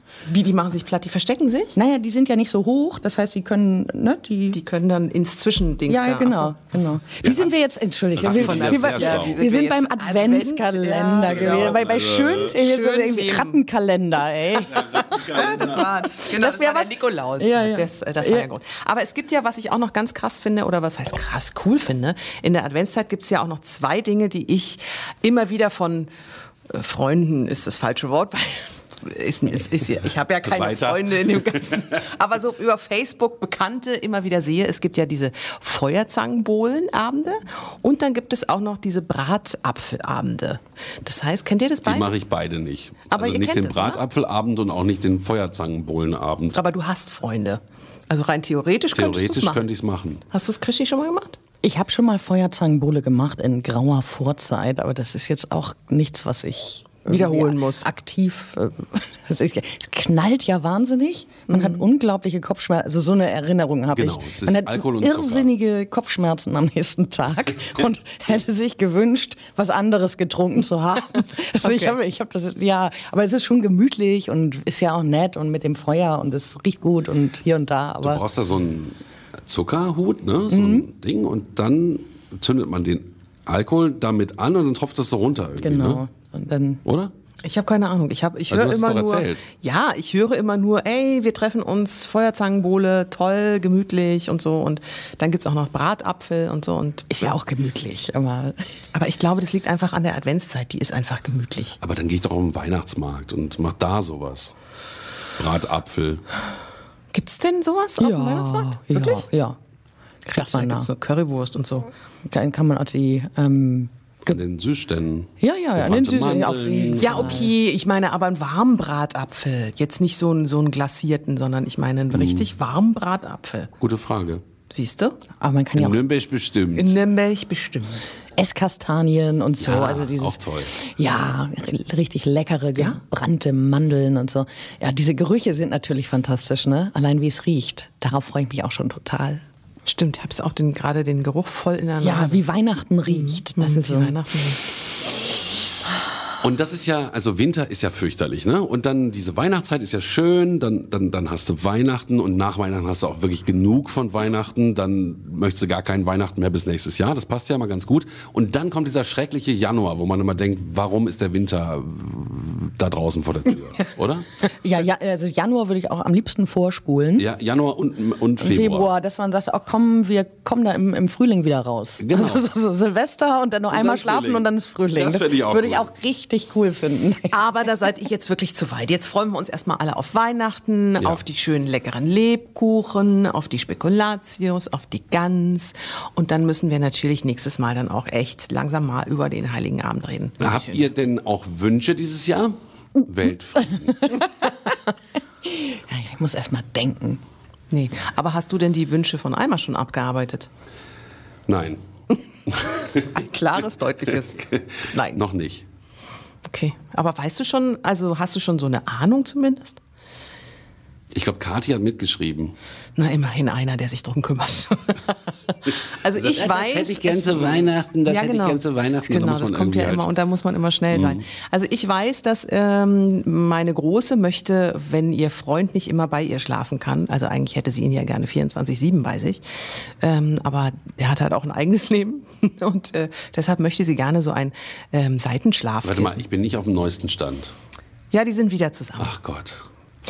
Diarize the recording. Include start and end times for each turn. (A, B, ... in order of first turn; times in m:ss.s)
0:00.2-0:01.8 A
0:01.8-0:04.6 B
0:04.5-0:06.9 A
0:05.9-0:15.3 B
0:07.2-0:07.5 C
0:08.2-0:09.4 C
0:08.2-0:13.6 A
0:11.2-0:12.5 C
0:14.7-0:15.9 C
0:15.1-0:26.1 A
0:16.3-0:18.5 B
0:26.7-0:42.2 A
0:30.4-0:31.8 C
0:41.8-0:46.6 C
0:43.1-0:44.0 A
0:46.5-0:49.7 A
0:48.9-0:50.2 C
0:50.3-0:51.4 A
0:51.6-1:18.2 B
0:57.1-0:57.9 A
1:01.5-1:01.8 A
1:03.9-1:05.5 C
1:11.6-1:12.0 A
1:18.0-1:26.0 C
1:20.5-1:20.9 B
1:25.6-1:26.8 B
1:26.8-1:27.1 C
1:27.4-1:37.4 A
1:28.5-1:29.4 C
1:37.1-1:38.5 B
1:38.9-1:41.8 A
1:41.8-1:44.5 C
1:45.4-1:46.2 C
1:47.1-1:49.2 A
1:48.0-1:49.6 B
1:50.2-1:51.9 A
1:50.3-1:50.9 B
1:52.3-1:54.4 B
1:54.2-1:57.4 C
1:55.4-1:57.5 B
1:57.0-2:03.7 A
2:02.1-2:02.5 C
2:03.8-2:04.4 C
2:04.7-2:05.2 A
2:05.4-2:06.0 B
2:05.8-2:07.0 C
2:06.8-2:08.2 A
2:08.4-2:19.4 B
2:09.6-2:10.8 C
2:19.8-2:22.4 A
2:22.0-2:24.1 B
2:23.1-2:24.6 A
2:26.4-2:44.3 C
2:44.6-2:47.3 B
2:47.2-2:48.9 C
2:48.4-2:57.4 B
2:52.0-2:52.4 C
2:53.7-2:55.9 C
2:57.3-3:10.9 A
3:01.0-3:01.2 C
3:10.4-3:14.0 C
3:14.0-3:14.7 B
3:15.4-3:17.2 B
3:17.7-3:20.5 A
3:21.5-3:21.8 C
3:22.5-3:22.8 C
3:23.1-3:25.2 A
3:24.3-3:25.6 C
3:26.4-3:29.8 A
3:31.1-3:32.6 C
3:33.0-3:49.4 A
3:36.1-3:40.1 C
3:40.9-3:41.2 C
3:50.0-3:56.2 A
3:55.8-3:57.5 C
3:58.1-3:59.1 A
3:59.0-3:59.6 C